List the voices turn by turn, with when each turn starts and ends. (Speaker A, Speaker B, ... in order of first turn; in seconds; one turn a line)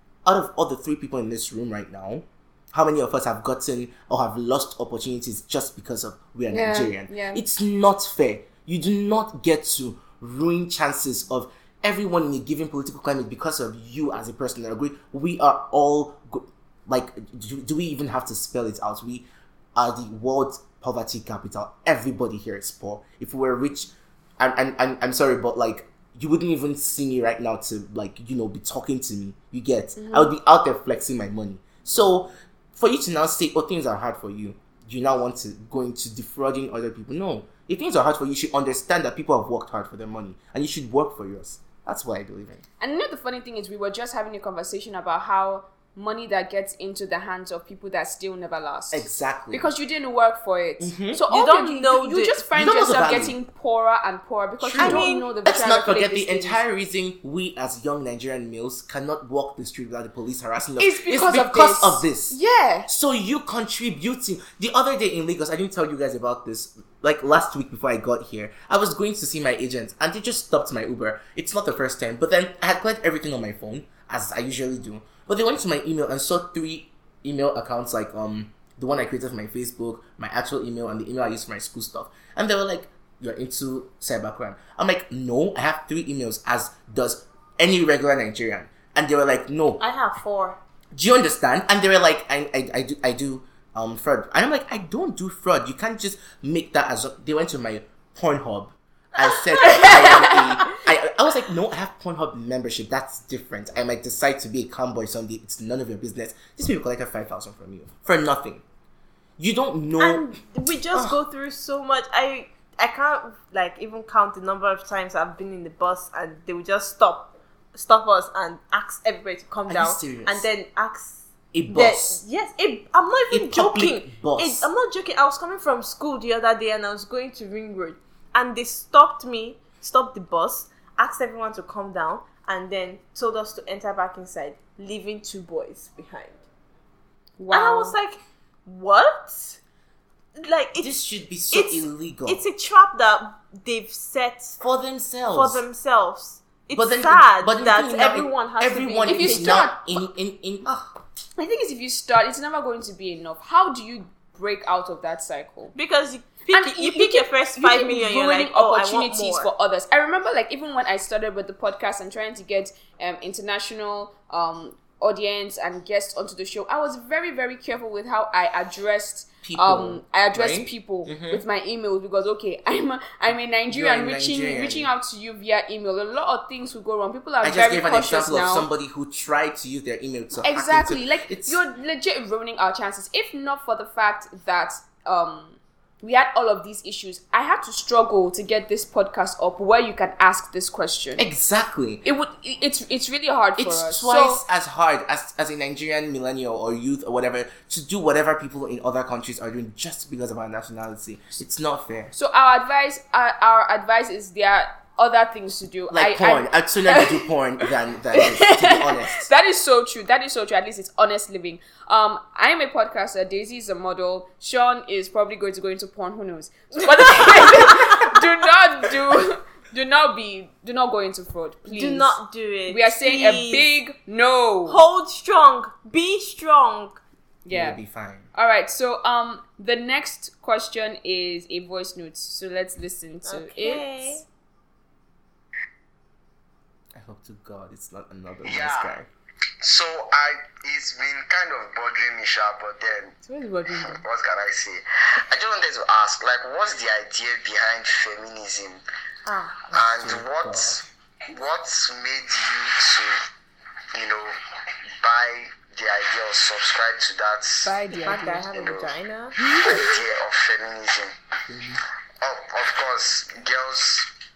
Speaker A: 0.2-42.6
Speaker B: 6.5-7.4
Speaker B: 30.0-30.3
Speaker B: 42.8-56.6
Speaker A: 48.9-49.7
Speaker A: 50.8-51.2
Speaker C: 51.3-52.5
Speaker A: 52.5-53.4
Speaker A: 54.6-89.8
Speaker C: 54.7-55.3
Speaker B: 60.8-62.9
Speaker C: 89.8-90.6
Speaker A: 90.9-108.6
Speaker A: 109.4-110.3
Speaker C: 110.0-136.4
Speaker A: 110.9-111.2
Speaker A: 119.7-120.5
Speaker A: 121.5-122.2
Speaker A: 123.3-124.7
Speaker B: 137.4-138.0
Speaker C: 137.5-139.6
Speaker C: 140.4-144.6
Speaker A: 140.8-142.4
Speaker A: 144.6-145.6
Speaker C: 145.2-149.7
Speaker A: 146.7-151.0
Speaker B: 149.1-150.1
Speaker B: 151.4-155.7
Speaker C: 155.7-159.5
Speaker B: 156.5-178.7
Speaker A: 169.4-171.4
Speaker A: 173.7-174.9
Speaker A: 177.4-181.6
Speaker B: 180.4-191.2
Speaker A: 191.2-192.1
Speaker B: 192.0-194.4
Speaker A: 193.6-202.1
Speaker B: 202.1-207.1
Speaker A: 205.9-209.3
Speaker B: 208.2-224.8
Speaker C: 221.6-223.7
Speaker C: 224.7-227.0
Speaker B: 227.4-227.8
Speaker A: 227.5-228.3
Speaker B: 228.3-234.2
Speaker C: 233.2-234.2
Speaker A: 236.9-239.1
Speaker D: 238.4-238.9
Speaker D: 239.6-248.8
Speaker C: 243.2-244.0
Speaker C: 249.2-249.7
Speaker D: 249.7-253.1
Speaker A: 249.7-250.8
Speaker D: 253.9-254.3
Speaker D: 255.0-257.8
Speaker B: 257.6-258.4
Speaker C: 257.8-259.5
Speaker D: 258.4-258.9
Speaker D: 259.6-261.1
Speaker A: 261.5-261.8
Speaker D: 262.2-264.1